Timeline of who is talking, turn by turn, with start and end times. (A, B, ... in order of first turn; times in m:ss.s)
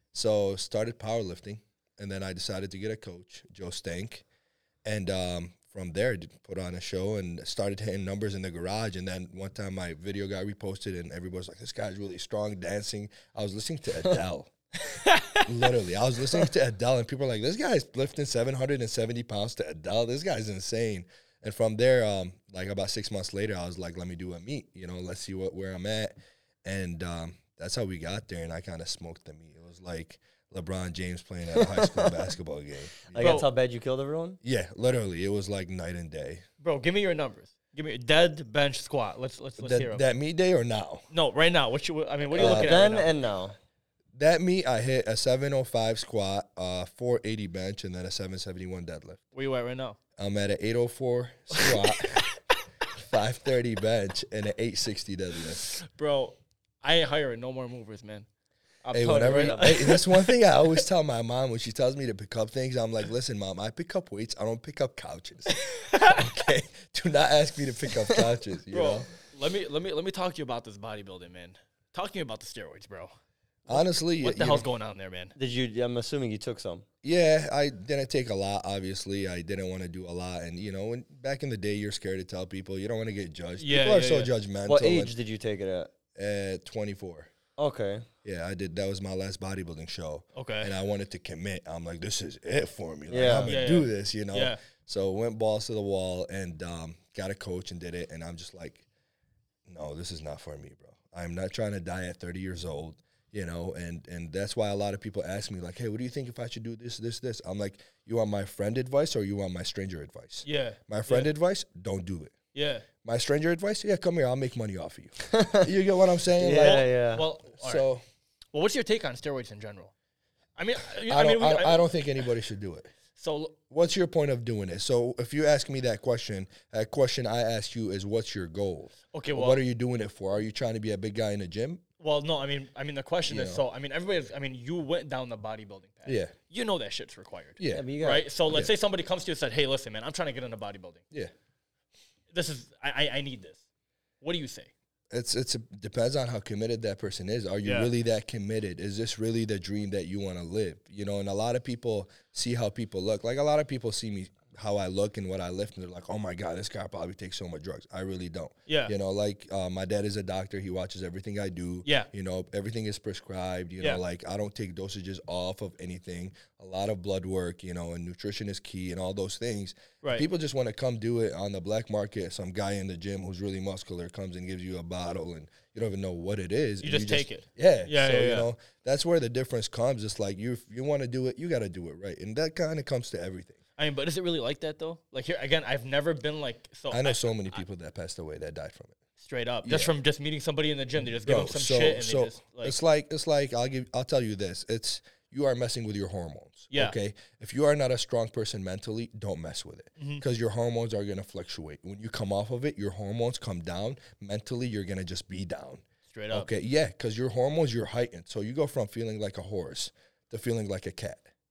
0:00.1-0:04.2 A
0:04.8-0:14.5 A
0:14.9-0:15.5 B
0:15.4-0:26.1 A
0:26.6-0:33.4 A
0:31.5-0:32.2 C
0:33.1-0:34.4 C
0:33.2-0:33.5 B
0:34.4-0:36.4 A
0:36.6-0:40.0 B
0:39.6-0:41.0 A
0:41.1-0:43.1 B
0:42.3-0:42.7 A
0:42.3-0:43.6 C
0:44.1-0:49.2 A
0:49.3-0:50.0 B
0:50.2-0:52.3 A
0:52.9-0:55.8 A
0:55.7-0:58.3 B
0:58.8-1:00.4 B
0:58.9-1:09.1 A
1:05.7-1:06.2 B
1:08.7-1:13.1 B
1:13.7-1:15.3 B
1:13.7-1:14.7 A
1:15.4-1:16.8 C
1:17.0-1:25.1 A
1:23.6-1:24.3 B
1:24.6-1:25.9 C
1:26.1-1:27.3 A
1:27.6-1:28.0 C
1:28.2-1:38.8 A
1:30.3-1:30.7 B
1:33.1-1:33.6 C
1:33.4-1:34.6 B
1:39.7-1:52.3 A
1:50.4-1:51.3 B
1:52.5-1:52.9 B
1:53.0-1:56.9 A
1:55.3-1:55.7 C
1:56.3-1:57.2 C
1:56.5-1:57.8 B
1:57.5-1:58.0 A
1:58.5-1:59.9 B
2:00.6-2:02.0 B
2:01.0-2:02.9 A
2:03.2-2:03.6 B
2:03.7-2:11.8 A
2:09.1-2:09.6 B
2:12.0-2:21.0 B
2:13.2-2:13.6 A
2:16.0-2:16.3 A
2:17.6-2:17.8 A
2:17.7-2:18.3 C
2:22.3-2:23.6 B
2:24.2-2:24.7 B
2:25.1-3:03.6 A
2:27.6-2:27.9 B
2:38.7-2:38.9 B
2:56.8-2:58.5 B
3:03.8-3:07.6 B
3:06.9-3:09.0 A
3:09.2-3:12.8 B
3:09.6-3:09.9 A
3:11.2-3:31.2 A
3:16.7-3:17.0 B
3:20.0-3:20.2 B
3:26.1-3:26.5 B